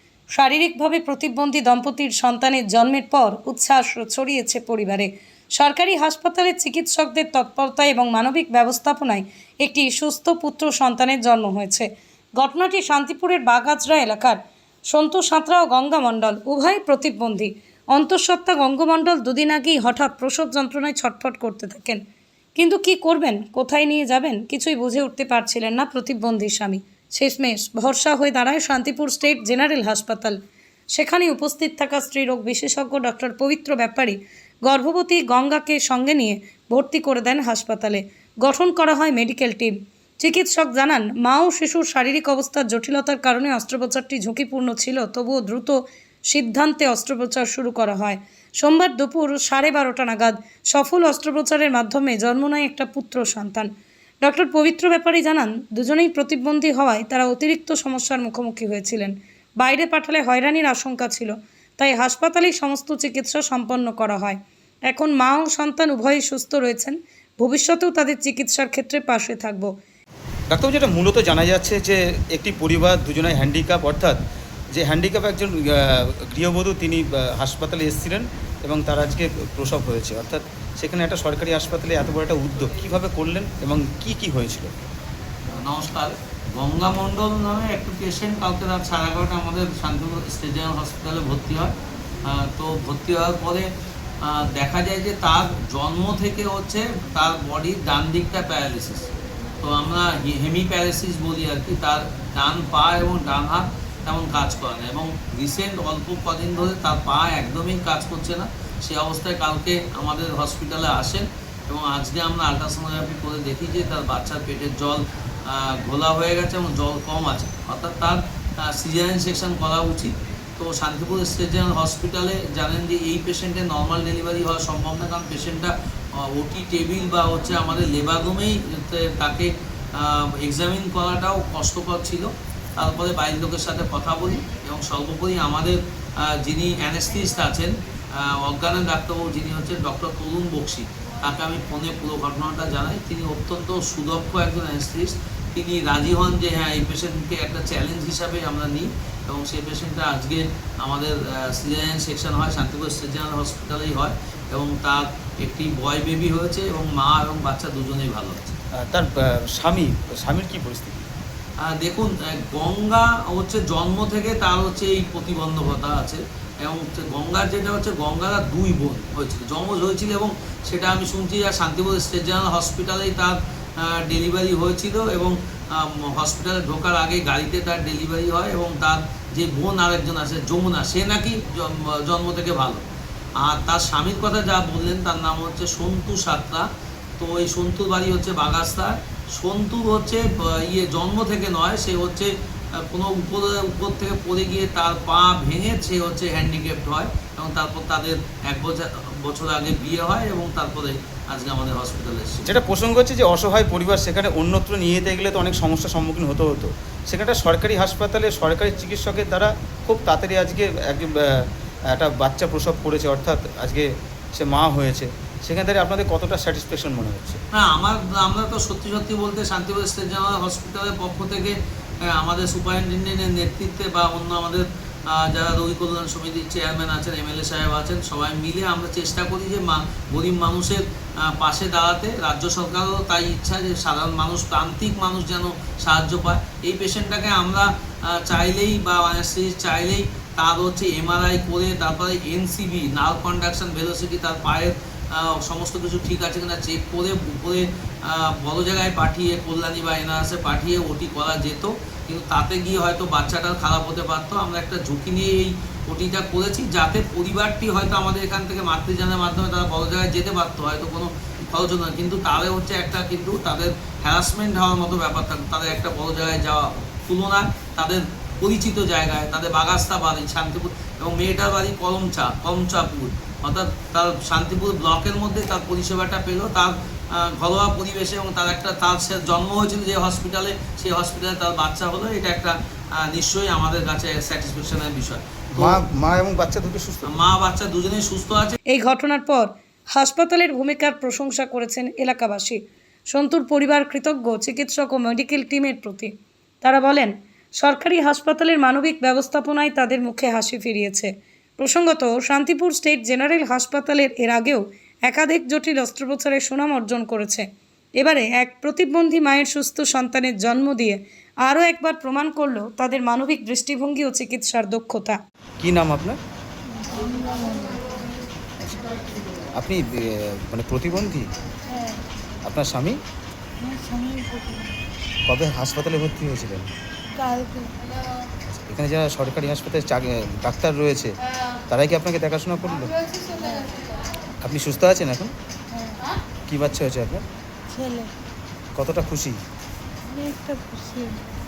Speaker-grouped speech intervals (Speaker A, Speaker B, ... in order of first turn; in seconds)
Speaker A: 0.3-22.0, 22.6-30.4, 30.9-53.7, 54.2-69.7, 288.7-307.5, 308.0-315.2
Speaker B: 70.5-74.2, 74.7-84.7, 158.8-161.1, 202.4-217.4, 285.6-287.1, 315.6-316.2, 319.6-321.3, 322.5-323.0, 325.3-326.7, 328.5-331.1, 331.7-332.9, 334.4-335.3, 336.5-337.2, 338.8-339.4
Speaker C: 85.5-93.7, 94.2-158.6, 161.6-182.8, 183.4-186.7, 187.2-202.5, 217.5-285.8, 287.1-288.6
Speaker D: 316.7-317.9, 321.7-322.0, 323.6-324.8, 327.1-327.8, 333.1-333.8, 335.7-336.1, 337.7-338.1, 340.1-341.3